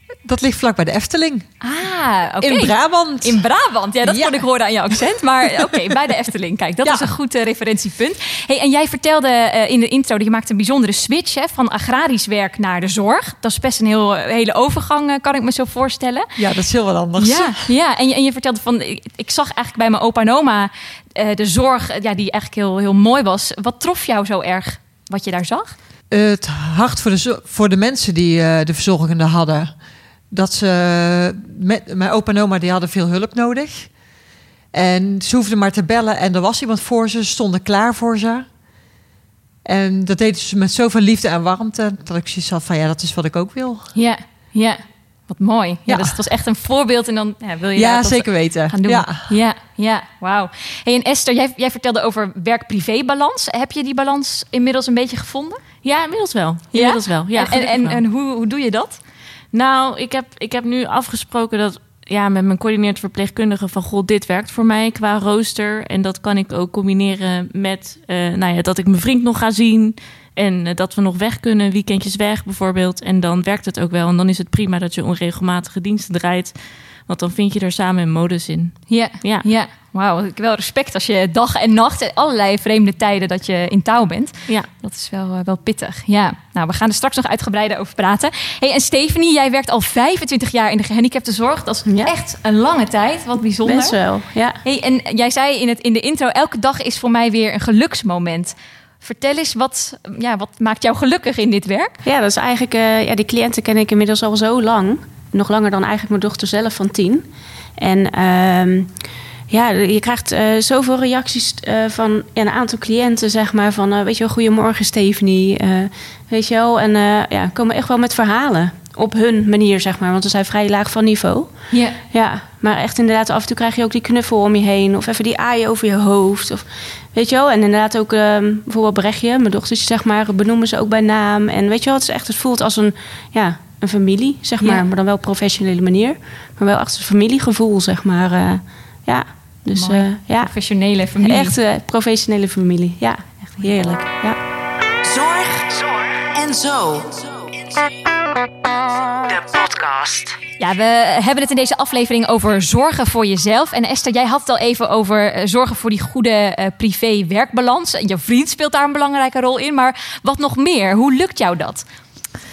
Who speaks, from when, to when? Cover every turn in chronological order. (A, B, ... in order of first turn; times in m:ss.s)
0:00.2-0:01.5 A
0:01.6-0:16.3 B
0:02.4-0:03.4 A
0:04.0-0:04.5 A
0:05.5-0:06.1 A
0:06.8-0:07.1 A
0:16.4-0:17.7 A
0:17.2-0:25.8 B
0:26.1-0:29.8 A
0:30.3-0:34.0 A
0:34.7-0:38.5 A
0:39.6-0:43.9 A
0:43.9-0:55.6 B
0:45.9-0:46.2 A
0:47.8-0:49.4 A
0:55.8-0:58.0 C
0:56.7-0:59.0 B
0:59.5-1:19.5 C
1:18.9-1:34.0 B
1:31.9-1:32.1 D
1:33.6-1:34.6 D
1:34.6-1:42.0 B
1:42.0-1:48.9 D
1:49.5-2:20.5 D
2:01.7-2:02.0 B
2:19.7-2:21.6 B
2:21.2-2:24.4 D
2:25.0-2:27.8 E
2:29.3-2:30.4 E
2:30.6-2:41.8 B